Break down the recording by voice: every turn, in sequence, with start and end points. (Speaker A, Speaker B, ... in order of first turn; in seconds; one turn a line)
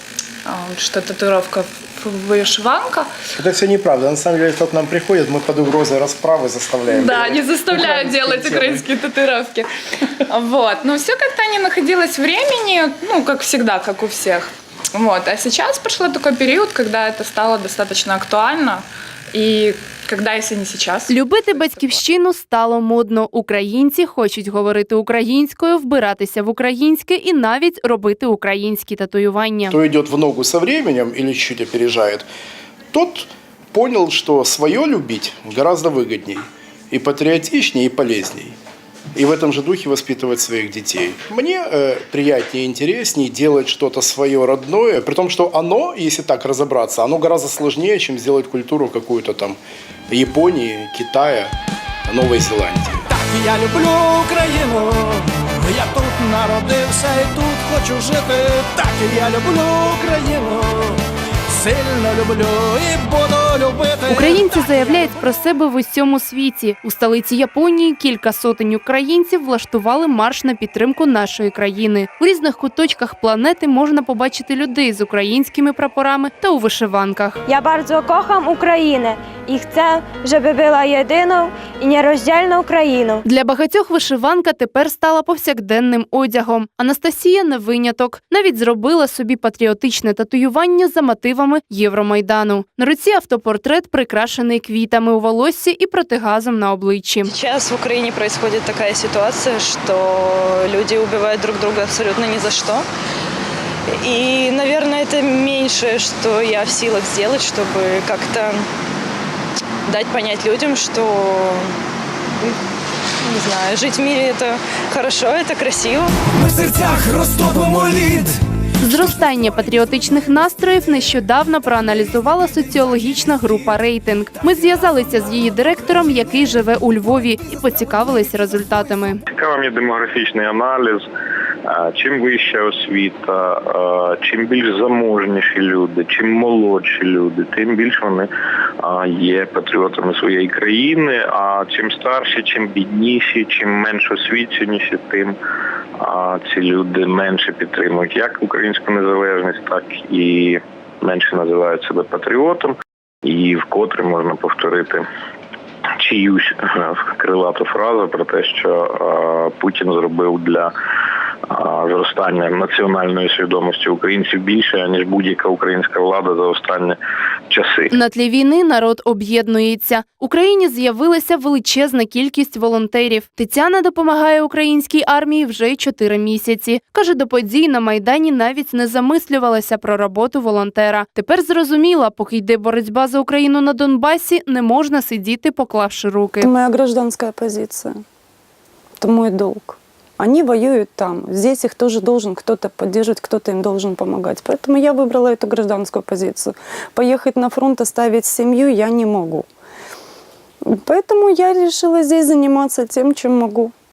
Speaker A: 0.4-3.1
Speaker B: 3.4-8.8
Speaker A: 6.9-21.2
Speaker C: 21.1-29.8
Speaker B: 29.7-32.3
Speaker B: 32.9-38.5
Speaker B: 39.1-49.6
Speaker B: 50.1-51.5
Speaker B: 52.1-53.0
Speaker D: 53.2-61.0
Speaker D: 61.5-64.8
Speaker C: 64.1-77.4
Speaker E: 77.5-83.2
Speaker C: 83.2-97.3
Speaker F: 97.2-102.8
Speaker F: 104.0-108.7
Speaker F: 109.8-111.7
Speaker F: 113.2-116.1
Speaker D: 116.5-118.3
Speaker C: 118.8-129.2
Speaker G: 129.3-131.1
Speaker G: 131.6-138.3
Speaker G: 138.8-145.3
Speaker G: 145.9-155.0
Speaker G: 156.0-160.7
Speaker G: 161.5-167.0
Speaker G: 167.5-167.9
Speaker C: 167.9-186.5
Speaker H: 186.4-188.0
Speaker H: 189.0-199.5
Speaker H: 200.7-203.7